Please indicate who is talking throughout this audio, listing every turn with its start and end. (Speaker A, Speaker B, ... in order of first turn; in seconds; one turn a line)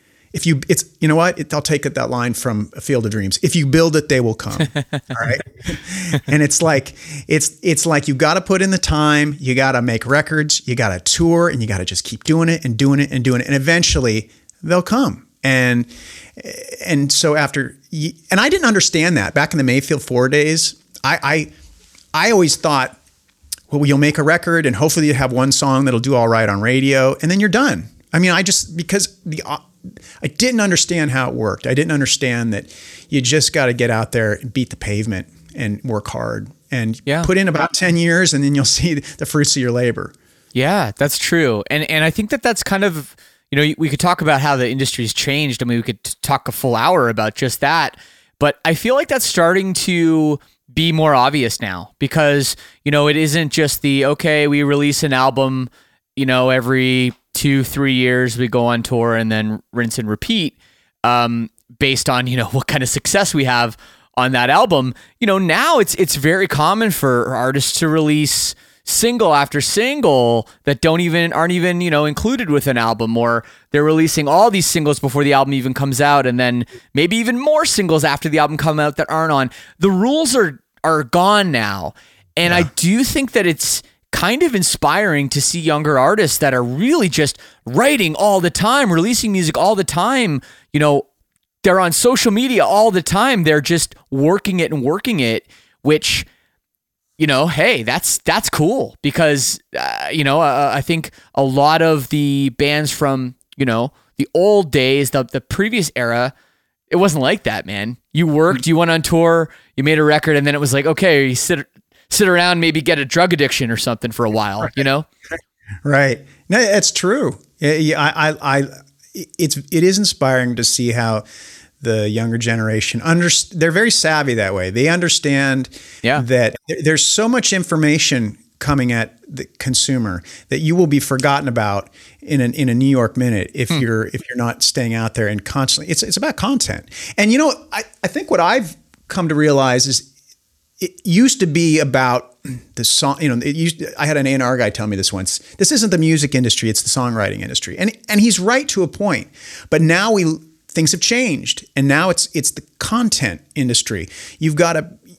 Speaker A: 0.3-21.5
Speaker B: 4.7-5.0
Speaker A: 22.1-23.0
Speaker A: 23.7-40.1
Speaker B: 40.5-91.1
Speaker A: 82.5-82.7
Speaker B: 91.6-96.3
Speaker B: 97.2-106.3
Speaker B: 106.9-115.1
Speaker A: 115.8-121.2
Speaker A: 121.8-140.1
Speaker A: 140.8-155.0